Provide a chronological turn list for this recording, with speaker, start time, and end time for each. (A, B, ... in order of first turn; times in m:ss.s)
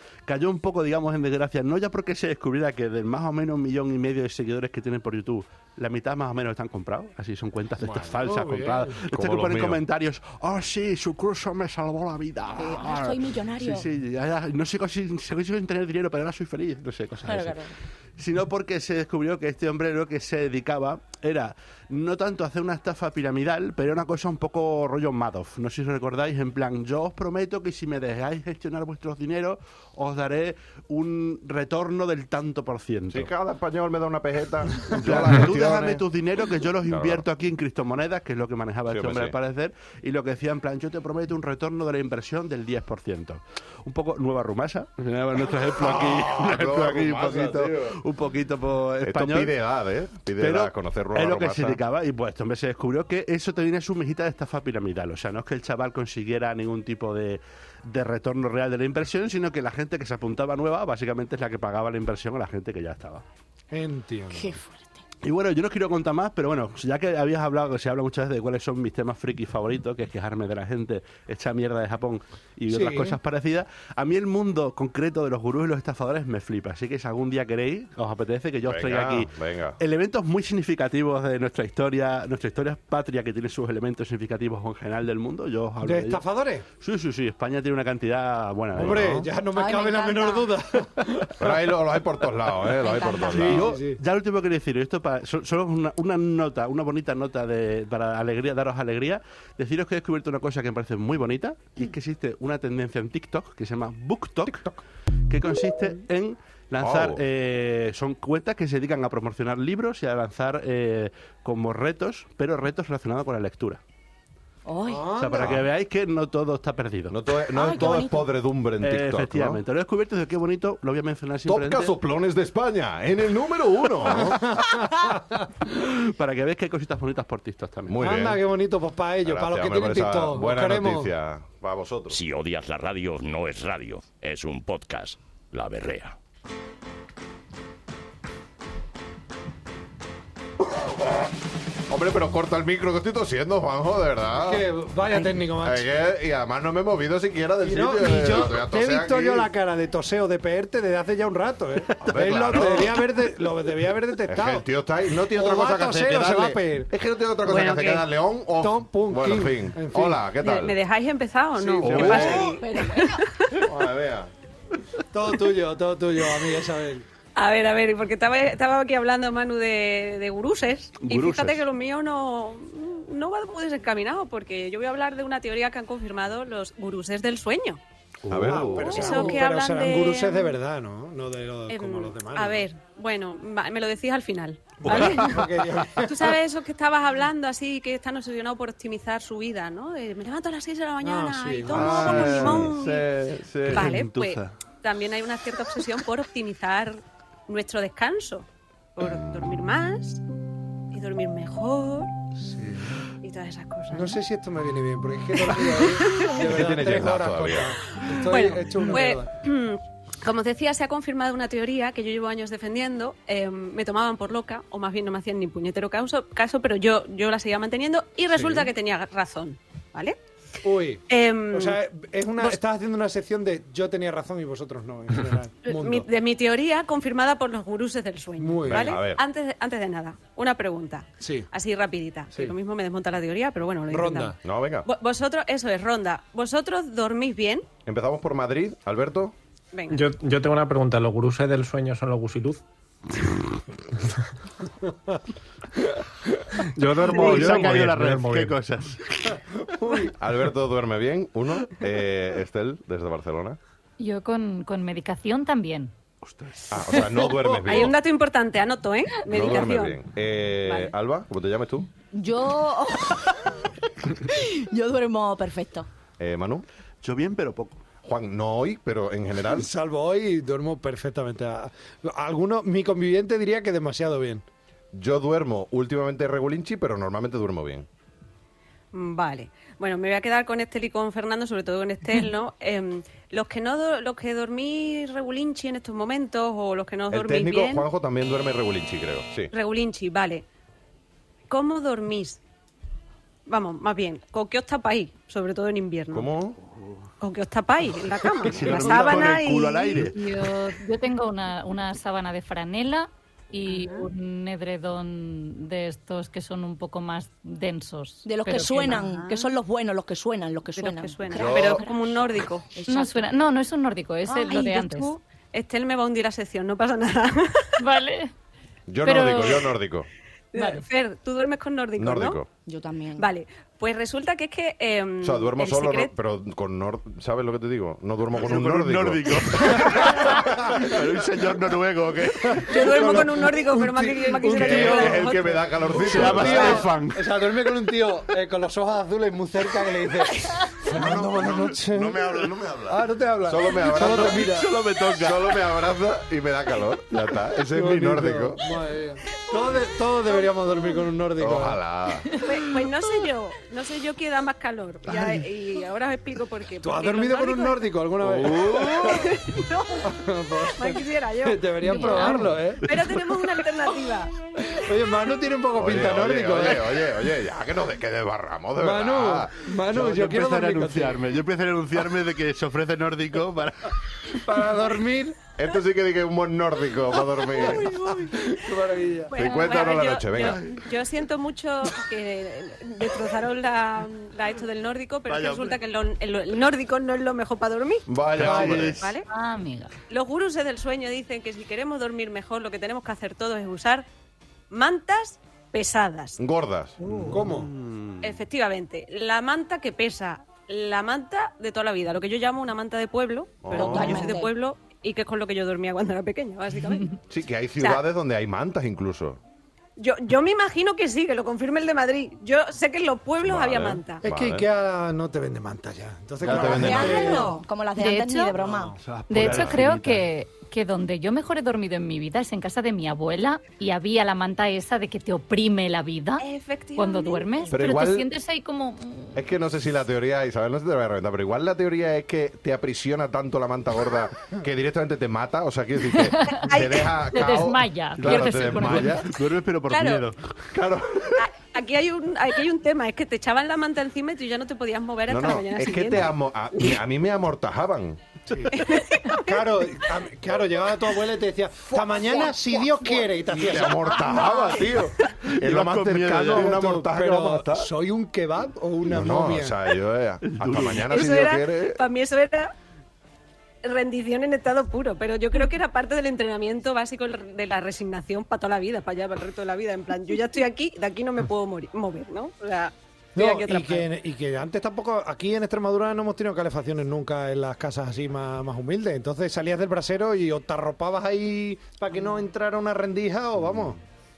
0:00.2-0:33.3 A
0:07.8-0:08.1 B
0:08.2-0:08.9 C
0:09.1-0:09.8 B
0:12.6-0:13.9 D
0:17.2-0:17.7 D
0:33.1-0:36.0 B
0:34.9-0:49.6 A
0:36.8-0:37.2 B
0:38.9-0:39.3 B
0:45.7-0:48.0 B
0:49.0-0:51.8 B
0:50.4-1:03.2 A
1:03.7-1:04.6 C
1:04.3-1:05.0 D
1:05.2-1:26.2 A
1:12.7-1:13.2 C
1:18.6-1:19.8 B
1:25.8-1:26.6 C
1:26.8-1:29.2 A
1:28.7-1:29.3 B
1:28.8-1:31.7 C
1:29.4-1:30.6 D
1:31.4-1:33.8 B
1:32.8-1:33.4 D
1:33.2-1:34.0 C
1:33.3-1:44.7 A
1:45.3-1:53.8 A
1:46.8-1:47.2 B
1:54.6-1:55.1 D
1:54.9-1:55.5 C
1:55.2-1:57.2 A
1:55.4-1:55.6 B
1:57.1-1:59.6 B
1:57.5-1:58.3 D
1:58.8-2:01.9 A
2:01.4-2:04.6 B
2:04.1-2:05.5 C
2:05.6-2:08.0 A
2:07.9-2:08.4 B
2:08.0-2:11.1 C
2:09.2-2:12.2 B
2:12.1-2:16.2 E
2:21.9-2:24.6 B
2:24.4-2:25.8 C
2:25.6-2:29.5 B
2:27.6-2:34.6 C
2:32.0-2:33.0 B
2:34.3-2:40.8 B
2:35.3-2:36.9 C
2:37.4-2:38.1 F
2:38.6-2:40.2 C
2:40.4-2:43.7 F
2:41.6-2:42.4 C
2:41.8-2:42.6 B
2:41.8-2:42.3 A
2:42.4-2:43.2 D
2:43.6-2:44.3 B
2:45.1-2:47.0 C
2:47.4-2:57.8 F
2:51.0-2:51.6 A
2:58.2-2:58.7 A
2:58.3-2:59.2 B
2:58.4-3:02.7 C
2:58.7-3:00.6 F
3:01.7-3:13.1 F
3:04.8-3:05.5 A
3:04.8-3:06.4 C
3:11.0-3:12.7 C
3:11.7-3:13.9 B
3:13.6-3:14.5 A
3:13.7-3:20.2 F
3:20.9-3:22.1 F
3:22.4-3:23.0 C
3:23.2-3:24.2 F
3:23.9-3:29.3 C
3:25.5-3:26.4 F
3:26.4-3:27.8 B
3:28.1-3:40.2 F
3:38.3-3:38.7 C
3:40.6-3:46.1 C
3:41.1-3:41.8 F
3:45.6-3:57.7 F
3:48.4-3:49.0 C
3:48.7-3:49.2 B
3:51.2-3:51.5 C
3:53.9-3:54.4 C
3:54.4-3:54.9 B
3:57.8-3:59.3 B
3:59.7-4:00.0 F
3:59.9-4:02.6 G
4:06.8-4:08.6 G
4:07.0-4:09.4 A
4:07.1-4:07.6 C
4:09.7-4:10.1 C
4:10.2-4:13.6 B
4:14.0-4:15.9 H
4:16.2-4:17.0 A
4:16.7-4:18.0 B
4:17.4-4:20.0 F
4:19.2-4:21.9 B
4:20.6-4:20.9 F
4:22.1-4:25.9 D
4:26.2-4:26.6 B
4:27.0-4:27.8 A
4:28.0-4:29.7 B
4:29.5-4:34.4 C
4:34.9-4:37.9 B
4:38.9-4:47.9 F
4:47.1-4:49.5 B
4:49.5-4:50.4 F
4:51.5-4:52.4 F
4:53.5-4:56.3 F
4:56.1-4:56.6 B
4:57.2-5:00.1 F
4:58.4-5:00.2 A
4:59.9-5:09.0 H
5:03.7-5:04.1 F
5:08.2-5:13.3 D
5:08.8-5:09.5 F
5:10.8-5:12.7 F
5:11.3-5:11.8 B
5:12.9-5:15.1 H
5:14.2-5:15.1 D
5:14.6-5:17.8 F
5:17.8-5:18.3 H
5:18.9-5:20.1 B
5:19.0-5:19.8 H
5:20.5-5:22.4 F
5:20.6-5:20.8 H
5:22.0-5:22.5 B
5:22.6-5:23.2 D
5:23.2-5:26.1 F
5:25.2-5:31.1 B
5:28.3-5:33.2 A
5:32.4-5:44.7 C
5:32.6-5:35.7 F
5:34.5-5:36.9 B
5:35.9-5:37.5 A
5:40.9-5:44.5 B
5:43.8-5:45.8 A
5:45.1-5:48.6 B
5:47.7-5:51.8 C
5:49.3-5:51.1 F
5:51.4-5:52.4 B
5:52.4-5:57.9 F
5:55.1-5:55.4 C
5:56.8-5:59.3 C
5:58.2-5:59.2 A
5:58.6-6:04.4 F
6:00.0-6:02.9 C
6:01.8-6:02.5 H
6:04.6-6:07.1 C
6:05.7-6:09.7 B
6:08.8-6:11.2 C
6:09.9-6:14.3 A
6:14.4-6:15.4 C
6:15.6-6:17.9 B
6:17.5-6:18.5 F
6:17.7-6:19.3 C
6:19.3-6:28.0 F
6:19.3-6:20.6 B
6:20.4-6:20.7 A
6:25.3-6:25.8 A
6:28.1-6:29.0 B
6:28.3-6:29.1 A
6:28.4-6:28.9 C
6:29.0-6:29.3 F
6:29.3-6:29.9 H
6:30.1-6:34.0 F
6:34.7-6:36.4 F
6:36.4-6:37.0 B
6:37.0-6:37.3 H
6:37.0-6:37.7 C
6:37.2-6:38.4 A
6:38.2-6:47.2 F
6:43.6-6:44.3 B
6:43.7-6:44.5 D
6:47.3-6:49.4 B
6:47.8-6:48.0 F
6:50.0-6:54.2 F
6:53.4-6:54.7 B
6:54.2-6:57.6 C
6:56.4-6:57.3 B
6:56.6-6:59.0 D
6:56.7-6:57.6 F
6:58.0-6:58.5 H
6:58.6-6:59.0 C
6:58.9-7:00.2 A
6:59.3-7:06.4 H
6:59.4-6:59.7 B
7:06.4-7:08.0 F
7:07.0-7:09.4 H
7:07.7-7:08.3 B
7:09.3-7:19.2 B
7:16.1-7:19.3 H
7:18.2-7:20.8 A
7:19.9-7:20.3 F
7:20.7-7:21.5 B
7:21.4-7:27.0 F
7:25.3-7:28.2 B
7:28.5-7:34.4 C
7:28.7-7:29.6 F
7:31.9-7:33.1 F
7:33.5-7:37.9 B
7:34.0-7:35.3 F
7:35.4-7:36.9 A
7:36.5-7:39.8 C
7:39.1-7:42.0 B
7:40.4-7:41.2 A
7:41.1-7:42.7 F
7:43.8-7:54.1 F
7:53.4-8:04.0 C